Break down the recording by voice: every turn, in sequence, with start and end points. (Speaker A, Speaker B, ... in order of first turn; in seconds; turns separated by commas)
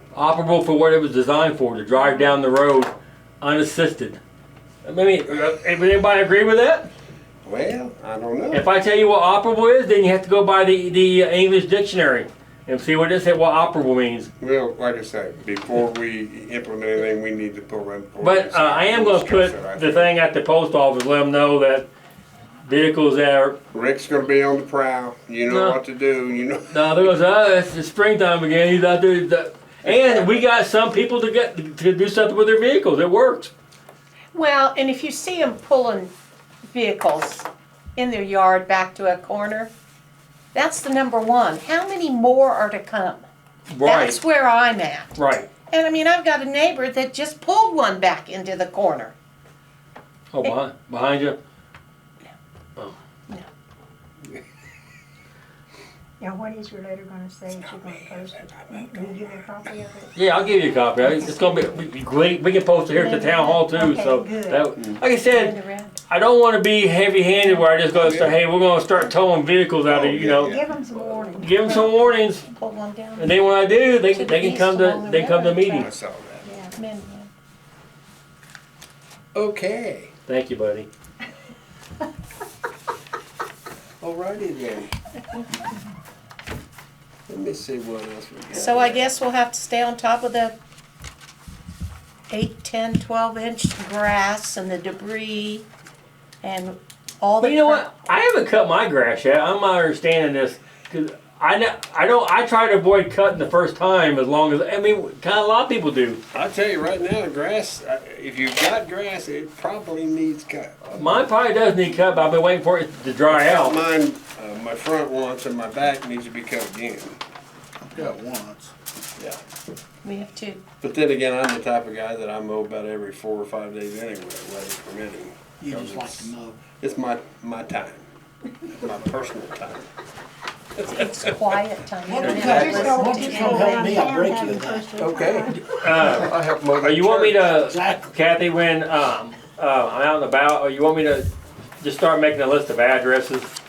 Speaker A: 0.1-4.2, Speaker A: 4.8-6.9, Speaker B: 7.4-8.6, Speaker A: 8.5-14.3, Speaker B: 14.4-20.1, Speaker A: 18.2-21.9, Speaker A: 22.6-23.6, Speaker B: 23.7-27.1, Speaker A: 25.4-25.8, Speaker A: 26.7-33.5, Speaker B: 29.8-30.4, Speaker C: 34.3-36.1, Speaker C: 36.7-39.7, Speaker C: 40.5-43.2, Speaker A: 43.7-44.2, Speaker C: 43.8-45.1, Speaker A: 45.1-45.5, Speaker C: 45.7-49.1, Speaker A: 50.3-51.4, Speaker D: 56.2-61.7, Speaker B: 58.4-59.1, Speaker A: 60.1-65.5, Speaker D: 62.9-64.7, Speaker C: 65.2-65.9, Speaker A: 66.1-70.5, Speaker B: 68.0-68.3, Speaker B: 69.8-71.2, Speaker D: 70.4-71.8, Speaker A: 71.3-72.4, Speaker C: 72.4-73.3, Speaker A: 73.2-75.9, Speaker C: 74.0-75.9, Speaker B: 75.8-76.5, Speaker D: 76.4-76.8, Speaker C: 76.7-77.3, Speaker B: 79.3-80.1, Speaker A: 80.2-80.9, Speaker B: 84.0-84.9, Speaker B: 87.3-89.1, Speaker C: 88.5-90.5, Speaker C: 92.3-95.7, Speaker C: 96.4-97.8, Speaker A: 97.4-106.2, Speaker B: 106.3-111.0, Speaker A: 110.9-113.8, Speaker B: 113.3-117.2, Speaker E: 117.8-118.7, Speaker C: 120.0-120.6, Speaker B: 120.8-128.0, Speaker E: 125.6-126.6, Speaker B: 128.6-129.9, Speaker B: 130.8-131.3, Speaker C: 130.8-133.8, Speaker E: 132.1-134.9, Speaker B: 132.2-132.8, Speaker D: 132.4-136.1, Speaker B: 135.0-137.6, Speaker A: 135.7-141.3, Speaker E: 137.7-138.1, Speaker A: 141.8-143.5